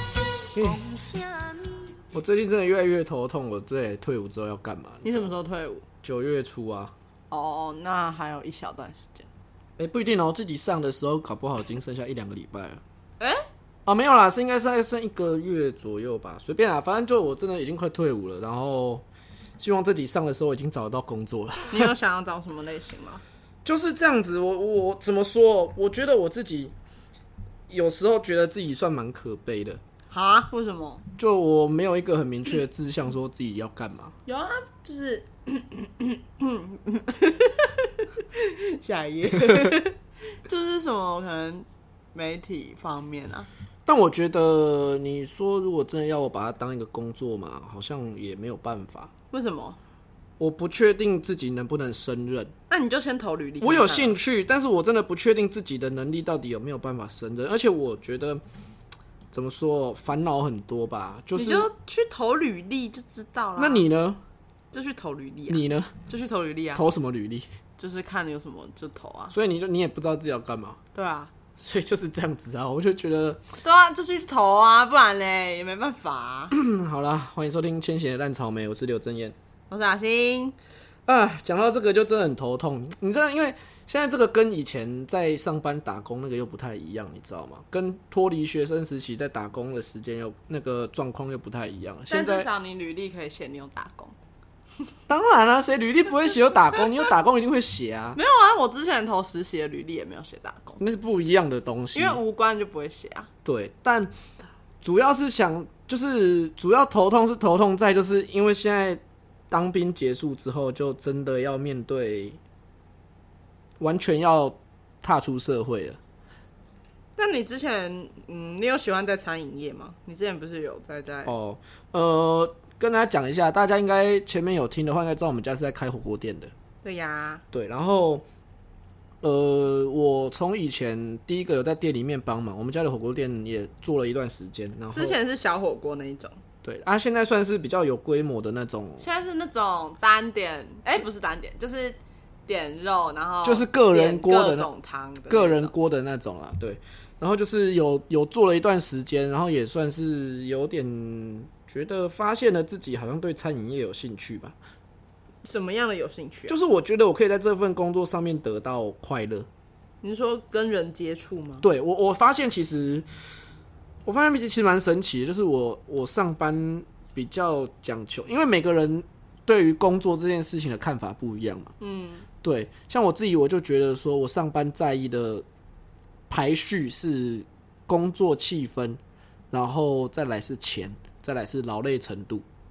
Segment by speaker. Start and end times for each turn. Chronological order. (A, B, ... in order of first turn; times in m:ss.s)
0:00.5-0:00.8 A
0:00.6-0:01.8 B
0:02.1-0:05.3 A
0:05.0-0:05.8 B
0:06.0-0:06.9 A
0:07.3-0:09.3 B
0:09.8-0:12.8 A
0:13.8-0:19.0 A
0:19.6-0:21.9 A
0:21.7-0:23.2 B
0:23.6-0:26.7 A
0:27.7-0:29.8 A
0:30.1-0:31.0 B
0:31.2-0:34.1 A
0:34.2-0:43.5 B
0:39.3-0:39.8 A
0:43.8-0:49.1 A
0:49.3-0:49.8 B
0:50.4-0:52.5 A
0:52.7-0:54.2 B
0:53.6-0:58.4 A
0:59.3-1:01.7 A
1:01.3-1:03.8 B
1:03.6-1:04.2 A
1:04.7-1:06.8 B
1:05.5-1:05.9 A
1:06.7-1:07.5 A
1:07.8-1:09.3 B
1:09.3-1:10.8 A
1:10.9-1:11.3 B
1:11.6-1:13.4 A
1:13.6-1:16.5 B
1:16.5-1:19.4 A
1:19.7-1:20.6 B
1:21.0-1:32.5 A
1:32.1-1:34.1 B
1:35.1-1:38.2 A
1:38.1-1:40.8 B
1:40.8-1:42.2 A
1:41.9-1:43.3 B
1:43.4-1:44.1 A
1:44.8-1:52.4 A
1:53.8-1:56.0 A
1:57.2-2:01.3 B
2:01.2-2:06.5 A
2:06.8-2:07.4 B
2:07.5-2:08.2 A
2:09.2-2:15.2 A
2:14.9-2:16.4 B
2:16.6-2:19.0 A
2:19.0-2:25.7 B
2:23.4-2:24.7 A
2:25.3-2:34.5 A
2:35.4-2:36.6 B
2:36.5-2:39.5 A
2:40.0-2:41.6 B
2:41.6-2:43.1 A
2:44.0-2:51.7 A
2:51.8-2:52.3 B
2:52.4-2:55.4 A
2:56.3-2:59.0 A
2:59.5-3:02.4 A